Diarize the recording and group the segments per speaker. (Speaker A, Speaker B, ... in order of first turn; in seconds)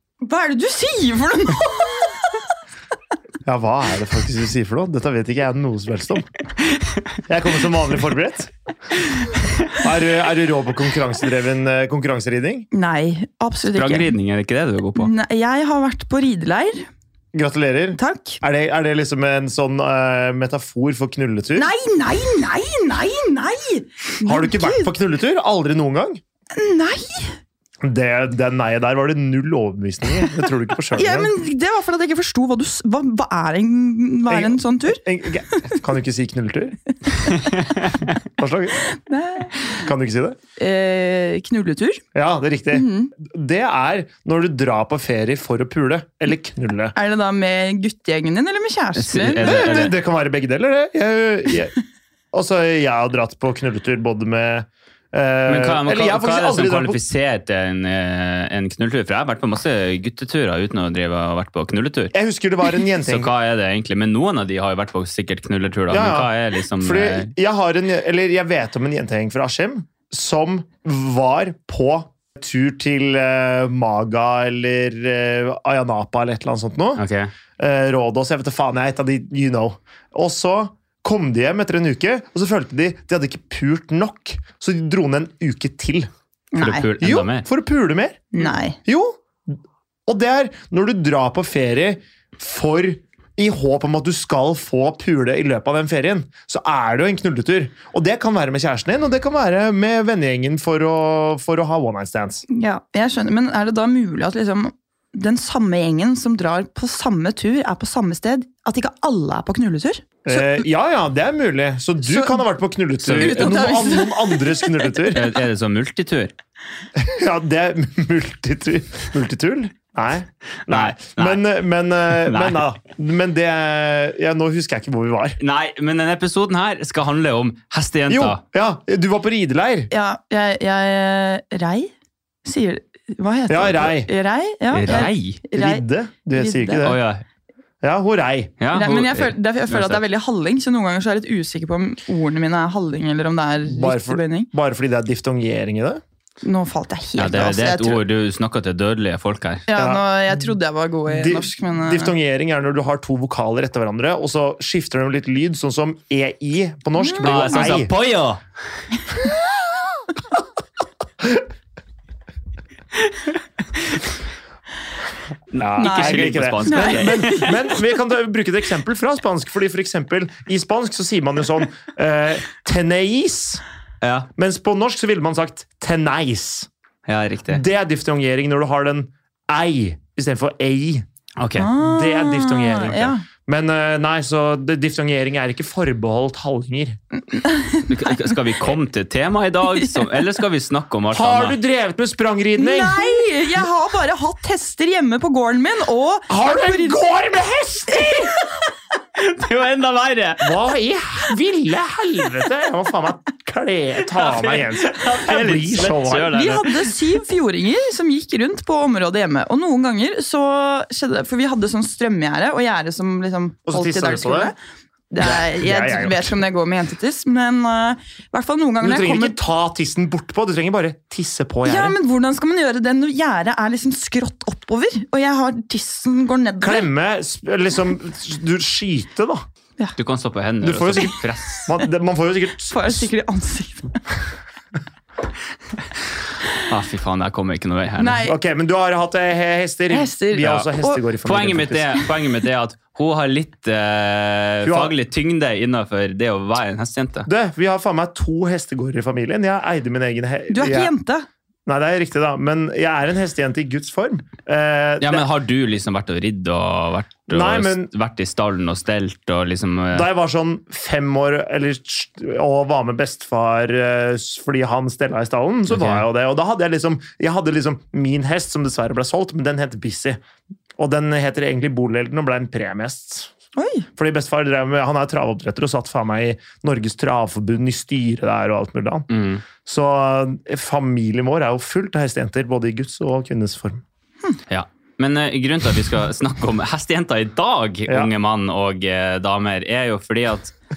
Speaker A: 0.2-2.4, 12.7-14.1, 15.0-16.9, 18.0-18.4, 21.6-24.9, 26.6-27.4, 30.9-35.0, 38.9-39.9, 40.6-42.0, 42.7-43.1, 46.9-49.9, 86.5-86.9, 88.3-88.8, 102.5-110.6, 112.0-112.4, 113.1-115.2, 129.9-131.9, 132.4-136.9, 138.7-144.5, 146.4-148.0, 149.7-152.1, 157.0-157.6, 165.8-167.3, 181.6-183.2, 187.3-188.3, 189.8-190.2, 192.6-197.1, 197.9-198.7, 206.3-214.6, 215.1-219.4, 221.7-226.9, 232.7-234.0, 238.0-238.4, 239.9-241.0, 250.5-251.3, 273.6-273.9
Speaker B: 3.5-6.3, 7.3-8.5, 9.8-12.7, 17.3-21.7, 24.2-26.2, 27.8-31.3, 34.3-36.8, 38.3-38.8, 39.8-40.4, 42.1-46.9, 49.4-51.7, 52.3-57.0, 62.1-63.3, 65.9-77.0, 77.6-86.1, 87.0-102.4, 110.2-115.3, 117.0-125.4, 128.1-129.9, 133.5-134.1, 134.9-137.0, 137.8-138.6, 143.7-146.0, 149.7-150.5, 151.1-157.9, 165.5-173.6, 174.4-176.7, 177.5-181.1, 181.7-187.0, 191.1-193.3, 196.3-198.3, 200.4-206.4, 213.7-214.5, 215.2-216.4, 218.8-222.0, 226.6-229.4, 230.6-233.1, 238.3-241.9, 244.6-244.9, 247.3-250.9, 251.7-255.2, 257.3-257.9, 259.9-270.2, 270.8-273.3, 274.0-279.1, 279.6-283.8
Speaker C: 13.7-15.1, 49.0-50.0, 55.5-62.1, 63.0-67.3, 77.0-77.3, 86.6-87.5, 113.0-113.6, 115.1-116.3, 120.7-121.4, 122.1-122.7, 125.4-128.4, 134.7-135.4, 136.8-137.2, 138.6-140.0, 147.2-149.7, 157.2-158.4, 165.5-167.6, 174.0-174.3, 177.1-177.6, 181.4-181.7, 187.9-191.6, 199.2-200.5, 204.1-206.9, 230.0-231.7, 236.6-238.2, 241.2-247.3, 255.0-260.1, 265.7-266.1, 279.1-279.4, 284.5-290.6